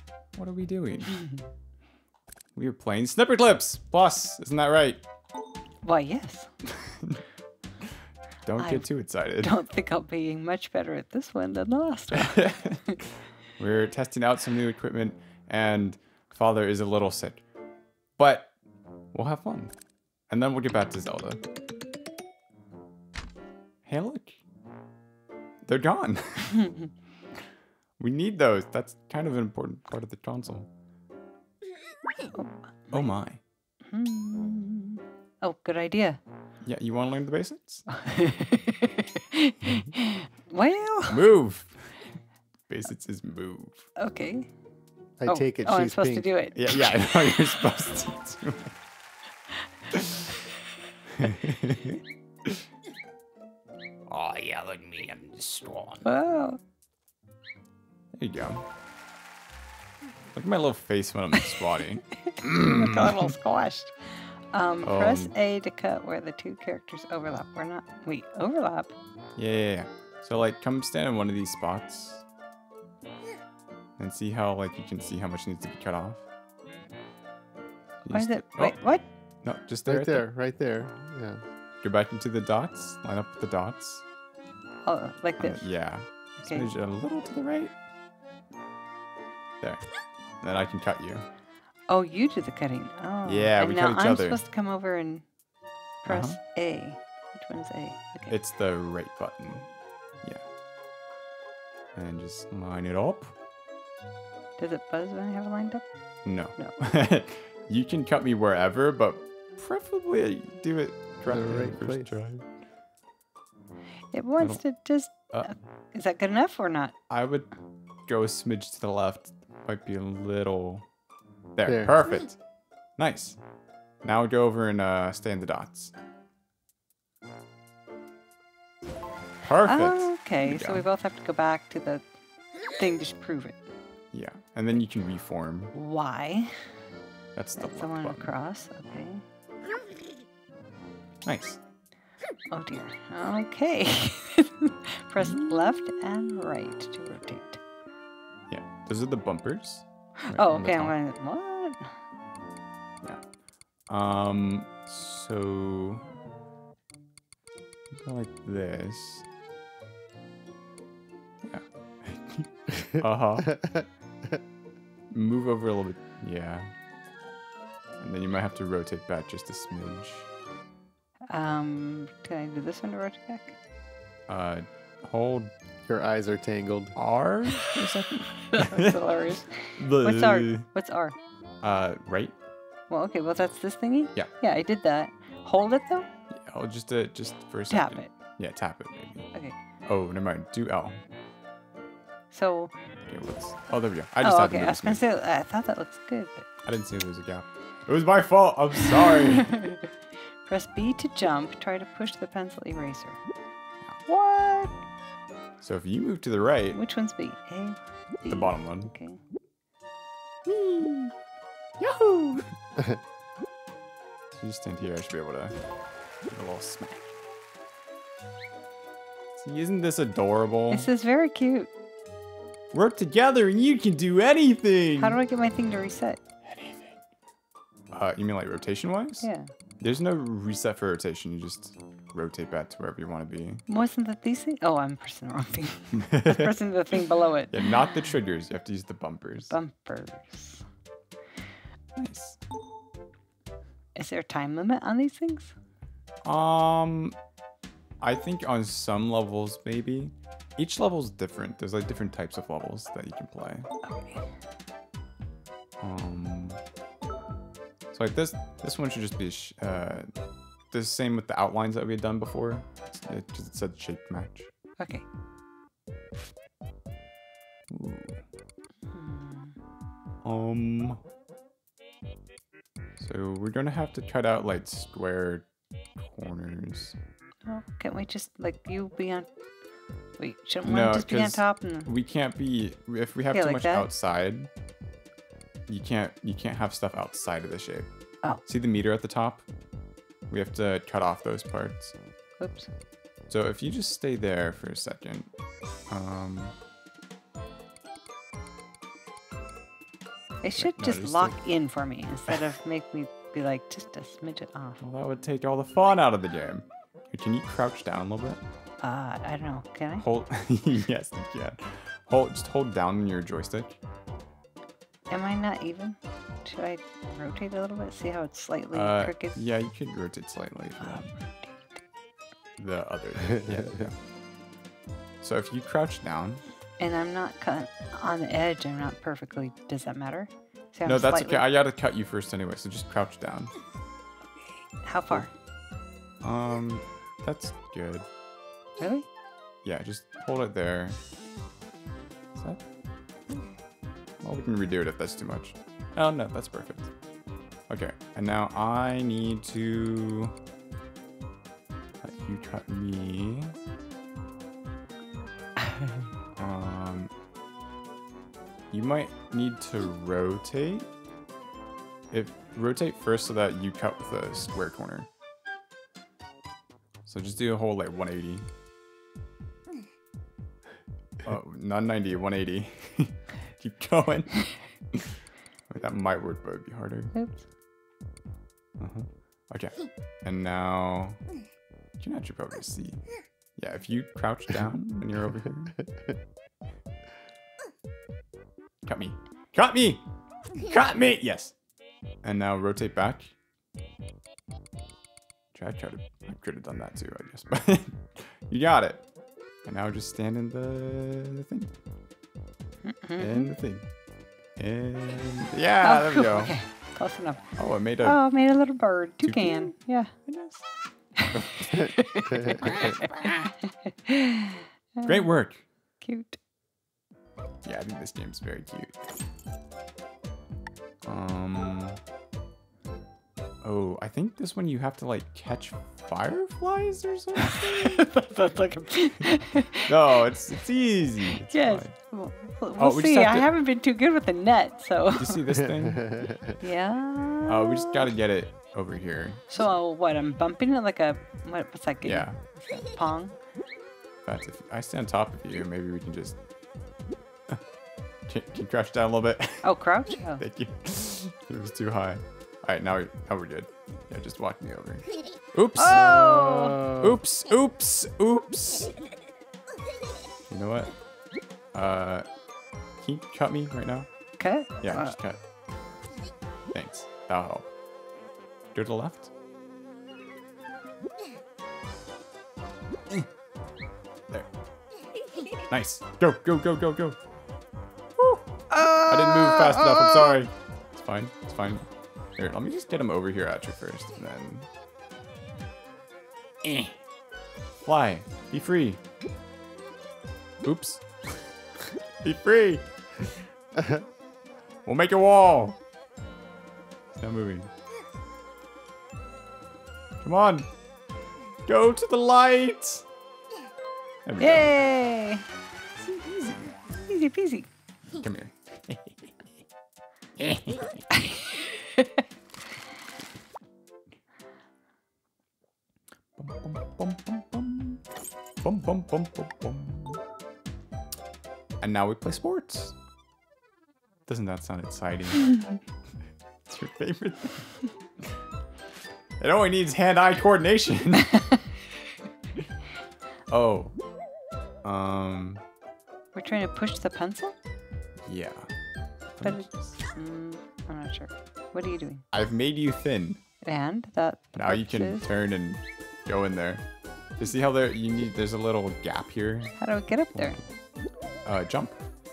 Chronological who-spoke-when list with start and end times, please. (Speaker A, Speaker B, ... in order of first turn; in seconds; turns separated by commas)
Speaker A: 0.3-1.2, Speaker A: 2.6-5.0, Speaker B: 5.8-6.5, Speaker A: 6.7-7.2, Speaker A: 8.4-9.6, Speaker B: 8.6-8.9, Speaker B: 9.4-13.0, Speaker A: 12.1-17.4, Speaker A: 18.2-18.5, Speaker A: 19.1-19.7, Speaker A: 20.3-21.4, Speaker A: 23.9-24.4, Speaker A: 25.6-26.7, Speaker A: 28.0-30.7, Speaker B: 32.3-33.1, Speaker A: 32.9-33.4, Speaker B: 33.9-36.2, Speaker A: 36.6-37.9, Speaker B: 37.9-41.2, Speaker A: 41.1-42.0, Speaker A: 42.7-43.9, Speaker B: 44.0-44.5, Speaker C: 45.2-46.3, Speaker B: 45.3-47.4, Speaker A: 46.5-48.7, Speaker A: 49.9-50.3, Speaker A: 51.1-52.6, Speaker A: 54.1-56.1, Speaker B: 56.0-56.6, Speaker A: 58.1-58.6, Speaker A: 60.3-63.4, Speaker B: 61.4-68.9, Speaker A: 64.8-65.3, Speaker A: 69.4-72.2, Speaker A: 74.0-76.2, Speaker A: 78.0-78.8, Speaker B: 78.1-79.0, Speaker A: 79.4-80.2, Speaker C: 79.9-81.4, Speaker A: 81.8-84.0, Speaker B: 84.8-85.7, Speaker A: 85.4-87.8, Speaker A: 90.4-91.2, Speaker B: 91.9-95.2, Speaker A: 93.2-94.4, Speaker B: 96.0-98.3, Speaker A: 96.1-96.4, Speaker A: 98.3-99.7, Speaker A: 102.0-103.3, Speaker B: 104.6-105.8, Speaker A: 106.2-112.5, Speaker C: 111.3-112.1, Speaker B: 114.1-116.9, Speaker A: 117.1-117.5, Speaker A: 118.1-120.9, Speaker A: 121.6-122.4, Speaker C: 121.7-122.0, Speaker A: 123.0-123.4, Speaker A: 124.0-125.9, Speaker A: 129.4-130.9, Speaker B: 129.7-132.0, Speaker B: 132.8-133.6, Speaker A: 134.1-135.7, Speaker B: 135.7-136.7, Speaker A: 137.3-138.3, Speaker B: 137.6-139.2, Speaker A: 141.2-141.6, Speaker B: 142.5-147.6, Speaker A: 145.2-145.6, Speaker A: 148.5-151.0, Speaker B: 150.3-151.9, Speaker A: 153.9-156.1, Speaker A: 157.9-159.2, Speaker A: 161.4-163.6, Speaker C: 163.6-163.9, Speaker A: 165.1-166.7, Speaker A: 168.0-170.3, Speaker B: 171.3-173.6, Speaker A: 174.3-175.5, Speaker C: 175.9-177.0, Speaker A: 177.0-179.0, Speaker B: 178.5-181.2, Speaker A: 179.8-180.7, Speaker A: 181.6-182.3, Speaker B: 182.9-186.1, Speaker A: 186.3-189.3, Speaker B: 187.7-188.1, Speaker A: 189.9-191.0, Speaker B: 192.3-192.7, Speaker A: 193.1-195.0, Speaker B: 194.2-196.5, Speaker A: 196.7-199.5, Speaker B: 199.1-199.9, Speaker B: 200.4-203.2, Speaker B: 204.1-204.7, Speaker A: 205.6-206.8, Speaker B: 206.7-209.2, Speaker A: 208.3-208.9, Speaker A: 210.5-211.1, Speaker A: 211.8-212.5, Speaker A: 214.3-215.6, Speaker A: 216.3-217.1, Speaker A: 219.4-220.9, Speaker B: 220.7-221.7, Speaker A: 222.7-225.2, Speaker B: 225.0-226.2, Speaker A: 226.4-227.0, Speaker A: 227.9-229.3, Speaker B: 229.2-229.5, Speaker A: 229.8-233.6, Speaker B: 233.7-237.9, Speaker A: 235.9-236.5, Speaker A: 237.5-239.6, Speaker B: 239.5-240.6, Speaker A: 242.0-242.4, Speaker B: 243.9-245.5, Speaker A: 246.2-247.2, Speaker A: 248.0-253.7, Speaker B: 253.8-254.3, Speaker A: 255.8-256.6, Speaker A: 257.9-260.1, Speaker A: 260.7-264.5, Speaker B: 264.8-265.1, Speaker A: 267.7-268.2, Speaker B: 268.9-269.6, Speaker A: 270.2-271.0, Speaker A: 273.0-277.0, Speaker B: 277.4-279.3, Speaker B: 280.2-281.9, Speaker A: 280.6-284.5, Speaker B: 283.3-283.9, Speaker A: 285.7-287.9, Speaker A: 288.4-289.5, Speaker A: 290.3-291.9, Speaker B: 292.4-292.7, Speaker A: 293.3-295.3, Speaker A: 295.9-296.6, Speaker B: 300.4-304.8, Speaker A: 300.6-301.4, Speaker A: 304.8-308.4, Speaker B: 308.8-310.1, Speaker A: 310.0-313.8, Speaker B: 315.1-319.4, Speaker A: 318.7-321.1, Speaker B: 320.8-321.6, Speaker A: 322.6-324.0, Speaker A: 325.2-326.4, Speaker B: 326.8-331.4, Speaker A: 330.9-333.5, Speaker B: 334.8-335.3, Speaker A: 336.2-338.1, Speaker B: 338.8-339.1, Speaker A: 339.6-341.0, Speaker A: 342.4-342.6, Speaker A: 344.2-346.9, Speaker A: 347.7-350.4, Speaker A: 352.0-353.6, Speaker A: 356.4-357.1, Speaker A: 358.7-360.9, Speaker A: 362.1-365.1, Speaker A: 367.1-368.5, Speaker A: 371.2-377.1, Speaker B: 377.1-377.4, Speaker A: 378.8-381.2, Speaker A: 382.0-383.0, Speaker A: 383.6-385.8, Speaker A: 388.9-391.5, Speaker A: 392.2-393.3, Speaker A: 395.5-399.0, Speaker A: 399.6-401.7, Speaker B: 402.9-403.5, Speaker A: 403.2-403.9, Speaker A: 404.6-406.5, Speaker B: 405.8-407.4, Speaker A: 407.6-408.2, Speaker B: 408.0-410.1, Speaker A: 409.2-409.7, Speaker A: 410.3-410.6, Speaker B: 411.2-415.3, Speaker A: 411.3-411.7, Speaker C: 412.3-412.6, Speaker A: 412.6-413.3, Speaker A: 415.0-415.6, Speaker B: 416.0-416.4, Speaker A: 417.6-419.0, Speaker A: 421.0-422.0, Speaker A: 423.6-428.1, Speaker B: 427.4-429.9, Speaker A: 429.9-431.9, Speaker B: 431.4-435.5, Speaker A: 432.8-433.5, Speaker A: 435.2-436.1, Speaker C: 436.0-436.6, Speaker B: 436.6-438.1, Speaker A: 437.5-439.4, Speaker B: 439.5-443.4, Speaker A: 442.0-442.4, Speaker A: 444.2-446.4, Speaker A: 448.3-449.7, Speaker B: 449.6-450.4, Speaker A: 450.3-458.9, Speaker B: 455.8-456.9, Speaker A: 460.5-460.9, Speaker A: 461.7-462.3, Speaker A: 463.0-464.1, Speaker B: 464.4-465.1, Speaker A: 464.8-465.4, Speaker A: 466.7-467.7, Speaker A: 468.7-469.3, Speaker A: 475.6-477.2, Speaker A: 478.2-478.4, Speaker B: 478.7-480.4, Speaker A: 479.1-484.7, Speaker A: 486.6-487.0, Speaker A: 487.9-489.0, Speaker A: 490.6-493.3, Speaker A: 494.9-495.8, Speaker A: 497.1-497.7, Speaker A: 500.2-500.7, Speaker A: 501.7-503.1, Speaker A: 504.2-504.7, Speaker B: 504.4-505.5, Speaker A: 506.0-506.8, Speaker B: 507.1-507.7, Speaker A: 508.1-509.4, Speaker A: 510.4-511.0, Speaker B: 511.1-512.2, Speaker A: 516.4-518.0, Speaker A: 518.6-520.2, Speaker A: 521.8-523.0, Speaker A: 524.3-525.6, Speaker A: 526.7-528.3, Speaker A: 529.4-531.4, Speaker A: 533.5-534.0, Speaker A: 534.8-535.6, Speaker B: 536.3-537.5, Speaker A: 538.3-538.7, Speaker A: 539.4-540.0, Speaker B: 539.4-542.2, Speaker A: 542.3-543.4, Speaker B: 543.6-545.3, Speaker A: 544.5-546.9, Speaker A: 547.4-549.8, Speaker B: 549.8-550.6, Speaker A: 550.4-550.6, Speaker A: 551.5-552.0